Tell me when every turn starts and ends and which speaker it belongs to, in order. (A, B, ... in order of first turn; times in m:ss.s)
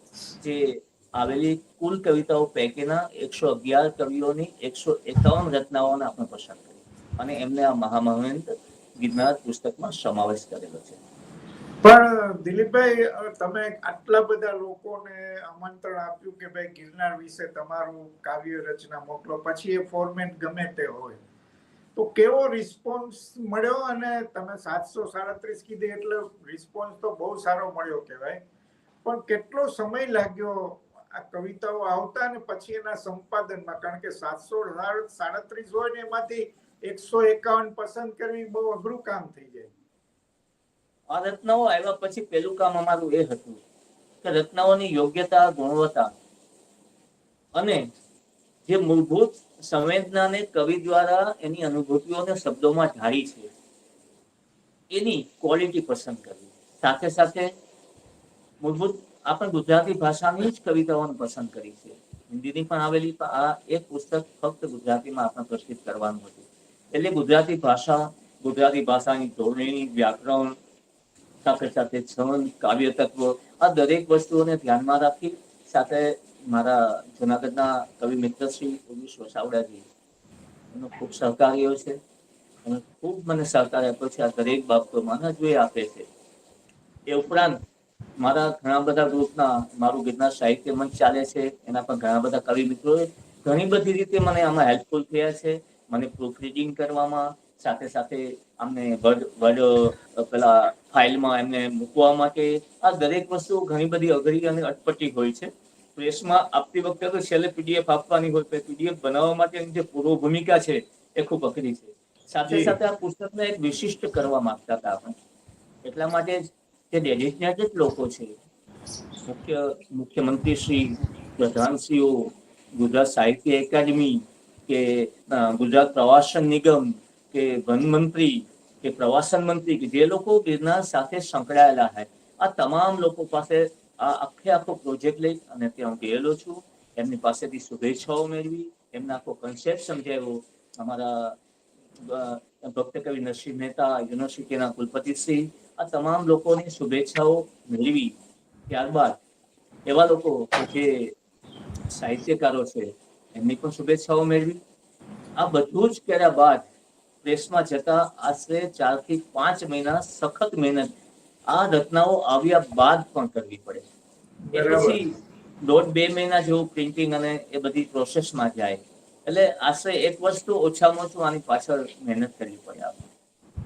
0:00.4-0:11.0 A
0:11.8-0:21.2 B
0:21.9-0:28.4 B
0:29.0-0:39.7 B
0:41.1-0:43.6 A
0:44.2-0:46.1 A
0:47.5-0:47.8 A
0:48.6-0:53.5 A
0:54.9-0:57.5 A
0:58.6-1:10.5 A
1:11.4-1:19.8 A
1:20.7-1:22.0 A
1:22.6-1:26.1 A
1:27.1-1:27.6 A
1:28.2-1:55.1 A
1:52.5-1:52.7 B
1:55.8-1:58.3 A
1:59.3-2:21.4 A
2:22.0-2:28.1 A
2:28.7-2:29.2 A
2:29.9-2:31.1 A
2:31.9-2:34.6 A
2:35.4-2:36.6 A
2:37.2-2:40.9 A
2:41.5-2:43.8 A
2:44.5-2:45.0 B
2:44.5-2:45.1 A
2:45.6-2:53.0 A